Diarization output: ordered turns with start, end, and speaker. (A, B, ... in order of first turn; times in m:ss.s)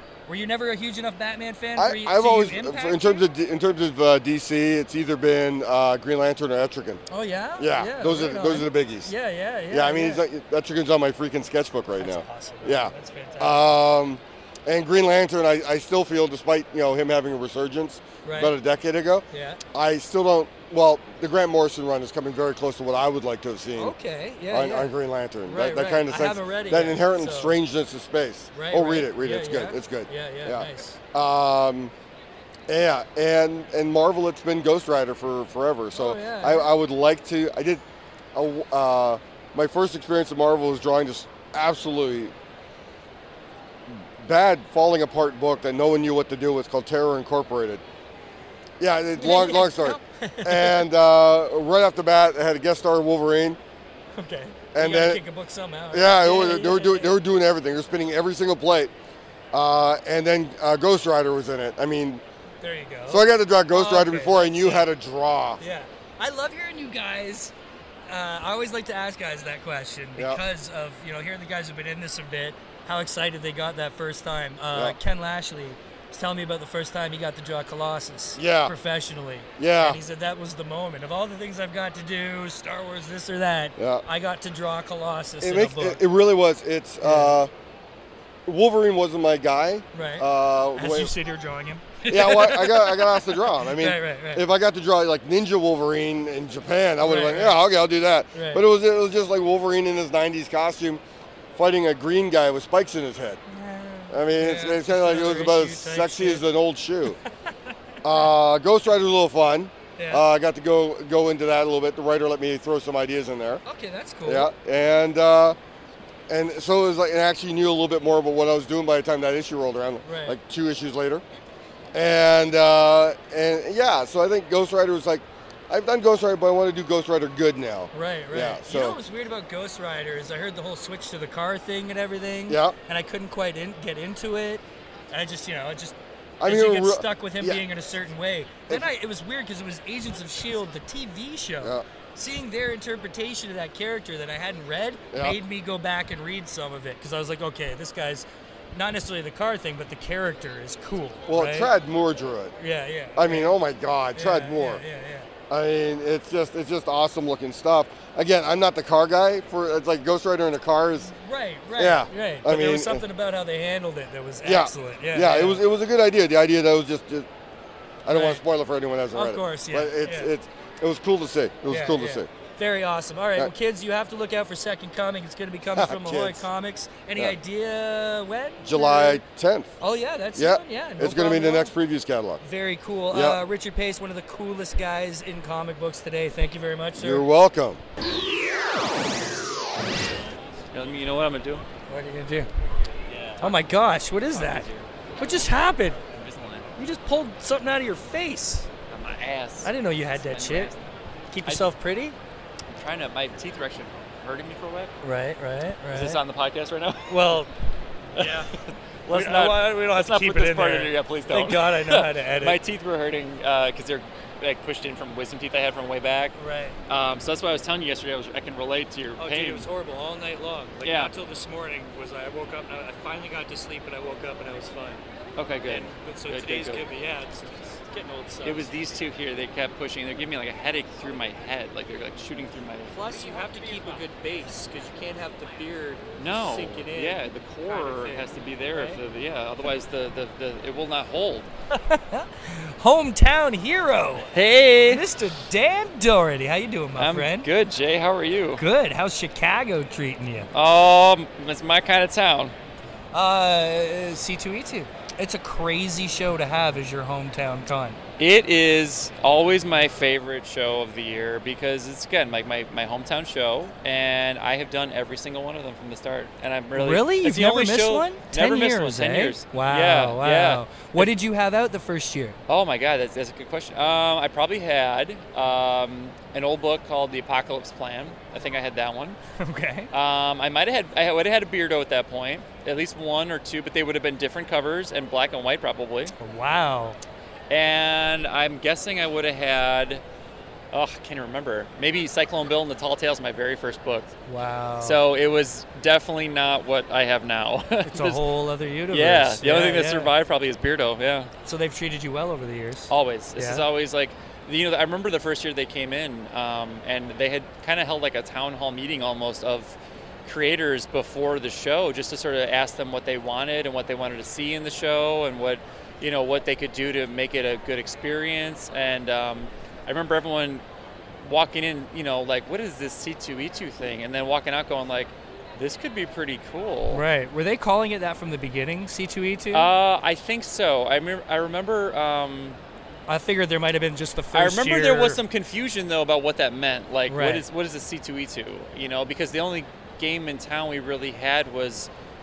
0:00.3-0:03.2 A
0:01.8-0:07.0 B
0:07.1-0:10.2 A
0:07.6-0:09.1 B
0:09.7-0:23.9 B
0:12.0-0:13.7 A
0:18.2-0:18.5 A
0:19.3-0:19.6 A
0:23.8-0:24.9 A
0:24.5-0:31.9 B
0:25.4-0:27.5 A
0:28.5-0:31.0 A
0:32.7-0:37.8 B
0:35.9-0:36.7 A
0:38.3-0:42.3 B
0:43.9-0:47.8 B
0:48.8-0:53.6 B
0:49.1-0:50.9 A
0:54.1-0:57.2 A
0:54.7-0:55.2 B
0:55.9-0:58.9 B
0:59.5-1:02.2 B
1:02.6-1:04.9 A
1:03.1-1:05.6 B
1:05.6-1:07.5 A
1:08.1-1:26.0 A
1:18.4-1:18.7 B
1:19.6-1:20.0 B
1:23.8-1:24.0 B
1:25.4-1:27.5 B
1:27.0-1:27.4 A
1:28.4-1:31.1 B
1:29.9-1:34.4 A
1:32.1-1:41.0 B
1:37.0-1:37.6 A
1:38.3-1:38.6 A
1:41.6-1:43.4 B
1:43.5-1:46.4 A
1:44.1-1:47.2 B
1:48.0-1:53.6 B
1:50.0-1:50.2 A
1:53.6-1:54.5 A
1:54.2-1:55.6 B
1:56.3-2:01.2 B
2:00.0-2:00.4 A
2:01.9-2:09.0 B
2:07.9-2:31.7 A
2:12.5-2:12.8 B
2:16.4-2:17.6 B
2:25.1-2:25.4 B
2:31.3-2:32.5 B
2:32.6-2:33.6 A
2:33.1-2:34.8 B
2:34.1-2:35.3 A
2:35.5-2:41.1 B
2:41.0-2:45.6 A
2:41.8-2:43.0 B
2:44.4-2:47.3 B
2:48.0-2:52.3 B
2:48.1-2:48.4 A
2:49.1-2:50.3 A
2:51.7-2:59.2 A
2:55.7-2:56.5 B
2:58.6-2:59.7 B
2:59.8-3:01.7 A
3:00.3-3:02.4 B
3:02.4-3:07.2 A
3:03.1-3:03.4 B
3:07.0-3:07.8 B
3:10.7-3:11.6 C
3:11.9-3:12.5 A
3:13.1-3:13.6 C
3:13.4-3:14.7 A
3:14.3-3:15.4 C
3:15.2-3:16.0 A
3:16.0-3:16.7 C
3:16.8-3:18.7 A
3:18.9-3:20.9 C
3:19.6-3:20.7 A
3:21.3-3:22.2 A
3:21.4-3:21.7 C
3:22.7-3:24.9 C
3:25.0-3:26.2 A
3:25.9-3:27.4 C
3:27.1-3:27.5 A
3:28.1-3:28.5 A
3:28.2-3:36.3 C
3:29.1-3:32.6 A
3:36.4-3:36.8 A
3:36.9-3:39.7 C
3:39.2-3:45.0 A
3:40.8-3:41.1 C
3:45.4-3:46.9 C
3:45.6-3:48.7 A
3:48.4-3:54.0 C
3:52.9-3:59.0 A
3:56.2-4:01.5 C
4:01.7-4:04.3 A
4:04.3-4:05.0 C
4:04.8-4:07.5 A
4:07.0-4:08.6 C
4:08.6-4:10.5 A
4:10.5-4:12.5 C
4:13.1-4:18.0 A
4:18.2-4:31.1 C
4:26.7-4:32.4 A
4:32.5-4:39.2 C
4:39.4-4:39.9 A
4:39.9-4:46.1 C
4:46.2-4:47.0 A
4:47.5-4:50.0 C
4:50.7-4:54.1 C
4:54.3-4:55.0 A
4:54.8-4:58.2 C
4:57.9-5:00.1 A
4:58.9-5:01.3 C
5:01.4-5:03.6 A
5:02.9-5:20.6 C
5:21.2-5:27.0 C
5:26.9-5:29.7 A
5:29.5-5:32.6 C
5:33.1-5:35.2 A
5:34.3-5:41.9 C
5:37.1-5:37.4 A